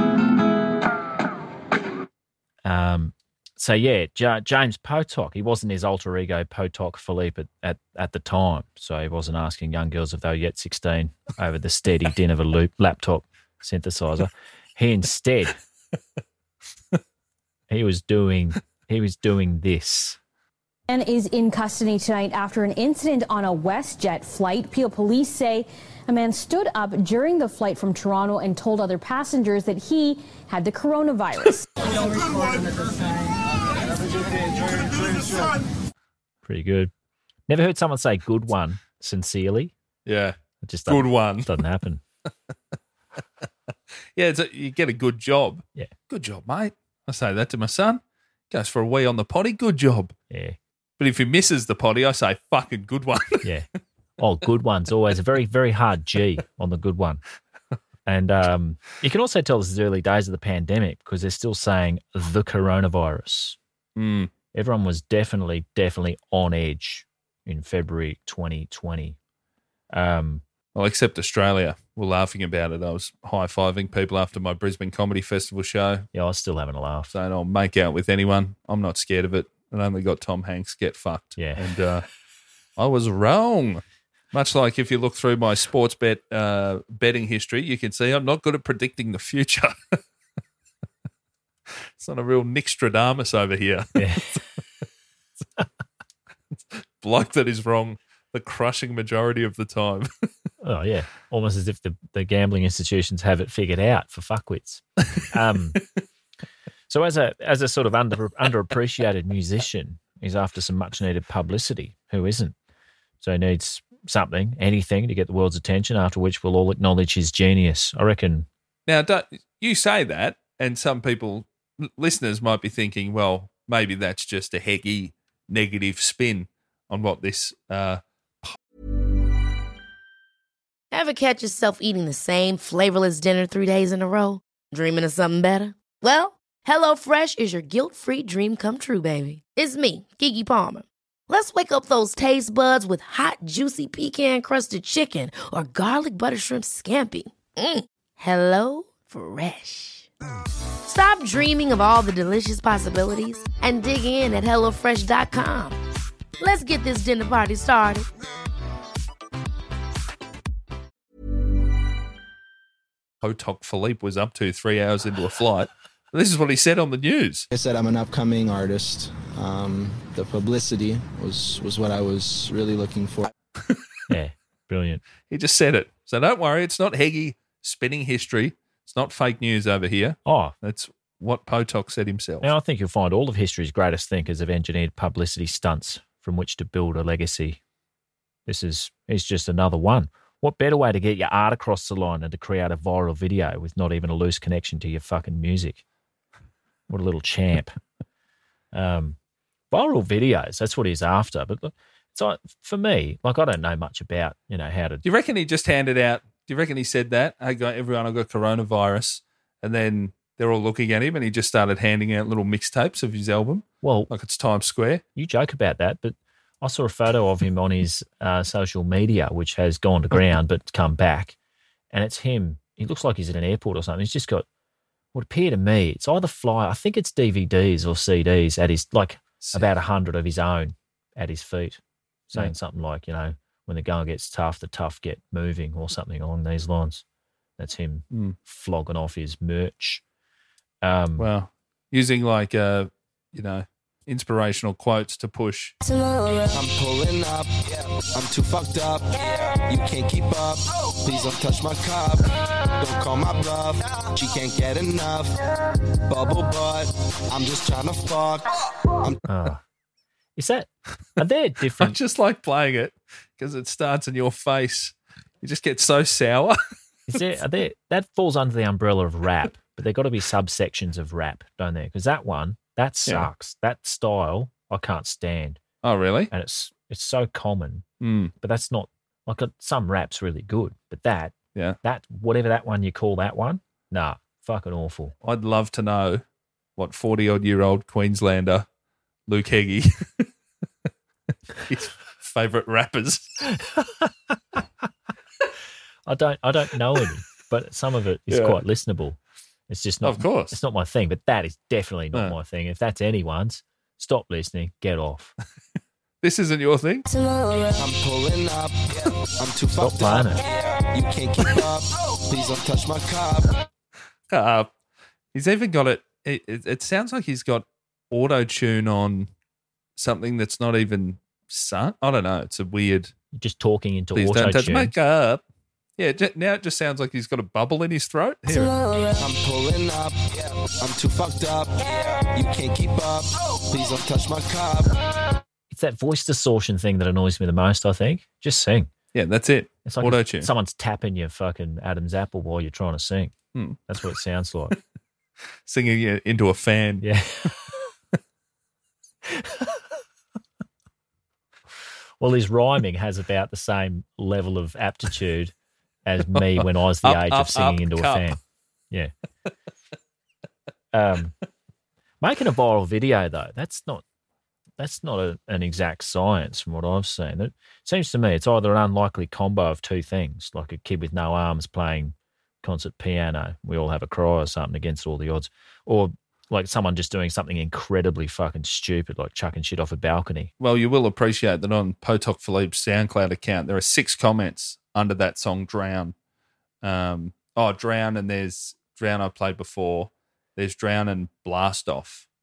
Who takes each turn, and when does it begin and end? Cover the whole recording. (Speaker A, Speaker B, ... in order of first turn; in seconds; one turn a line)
Speaker A: 2.6-15.6
Speaker A: 17.7-20.2
Speaker B: 20.9-31.7
Speaker A: 36.4-36.9
Speaker A: 37.5-39.7
Speaker C: 40.1-40.4
Speaker A: 40.6-42.0
Speaker C: 40.9-41.5
Speaker C: 44.1-50.1
Speaker A: 50.3-50.6
Speaker C: 51.0-53.5
Speaker A: 54.2-57.2
Speaker A: 58.1-63.6
Speaker C: 64.0-64.3
Speaker A: 64.5-69.2
Speaker A: 69.9-70.4
Speaker C: 70.8-76.1
Speaker A: 76.1-77.2
Speaker C: 77.1-82.0
Speaker A: 81.4-81.6
Speaker C: 82.8-90.0
Speaker C: 92.0-94.4
Speaker A: 94.0-94.4
Speaker C: 97.0-100.1
Speaker A: 100.6-105.8
Speaker A: 106.9-112.5
Speaker A: 113.2-118.5
Speaker C: 118.9-128.6
Speaker D: 130.9-150.1
Speaker D: 150.9-155.8
Speaker D: 156.4-158.1
Speaker C: 163.2-167.5
Speaker E: 167.5-173.3
Speaker A: 174.1-175.0
Speaker C: 175.3-182.5
Speaker A: 180.3-180.6
Speaker A: 182.4-187.6
Speaker A: 188.5-195.8
Speaker A: 196.9-197.8
Speaker A: 198.7-199.2
Speaker A: 199.7-205.0
Speaker C: 205.0-215.0
Speaker A: 213.8-214.1
Speaker A: 215.2-221.4
Speaker A: 221.9-224.5
Speaker A: 225.1-231.8
Speaker C: 229.4-229.7
Speaker A: 232.3-237.0
Speaker A: 237.6-240.0
Speaker C: 238.1-238.4
Speaker A: 240.8-241.3
Speaker C: 241.2-245.8
Speaker F: 246.5-252.2
Speaker F: 252.8-253.8
Speaker E: 252.8-253.3
Speaker E: 254.2-254.9
Speaker F: 254.6-255.3
Speaker E: 256.1-256.6
Speaker F: 256.2-258.4
Speaker A: 259.3-259.6
Speaker A: 260.4-262.0
Speaker C: 261.8-266.6
Speaker A: 267.1-275.6
Speaker C: 275.8-276.3
Speaker A: 276.3-277.9
Speaker C: 278.0-278.3
Speaker A: 278.4-285.1
Speaker C: 285.2-286.2
Speaker C: 286.8-288.7
Speaker C: 289.3-290.3
Speaker C: 291.6-293.4
Speaker A: 293.6-294.4
Speaker A: 296.1-299.2
Speaker C: 298.3-298.6
Speaker A: 299.7-305.3
Speaker C: 300.0-300.6
Speaker C: 306.2-307.1
Speaker F: 307.8-308.8
Speaker F: 309.4-309.8
Speaker E: 309.4-310.3
Speaker A: 309.8-310.4
Speaker F: 310.9-313.4
Speaker E: 311.0-311.7
Speaker E: 312.4-312.8
Speaker C: 314.3-314.7
Speaker C: 315.3-319.3
Speaker C: 320.0-323.1
Speaker A: 323.4-324.9
Speaker C: 324.1-325.4
Speaker C: 326.0-328.8
Speaker F: 329.2-334.9
Speaker A: 335.7-338.9
Speaker C: 339.1-340.5
Speaker A: 339.9-343.3
Speaker A: 343.9-344.8
Speaker C: 345.7-347.0
Speaker A: 347.0-347.8
Speaker A: 349.3-349.8
Speaker A: 352.2-355.5
Speaker A: 356.1-358.4
Speaker C: 356.4-358.3
Speaker A: 360.9-361.4
Speaker A: 362.2-364.0
Speaker A: 364.8-380.5
Speaker C: 380.6-386.1
Speaker C: 386.8-392.3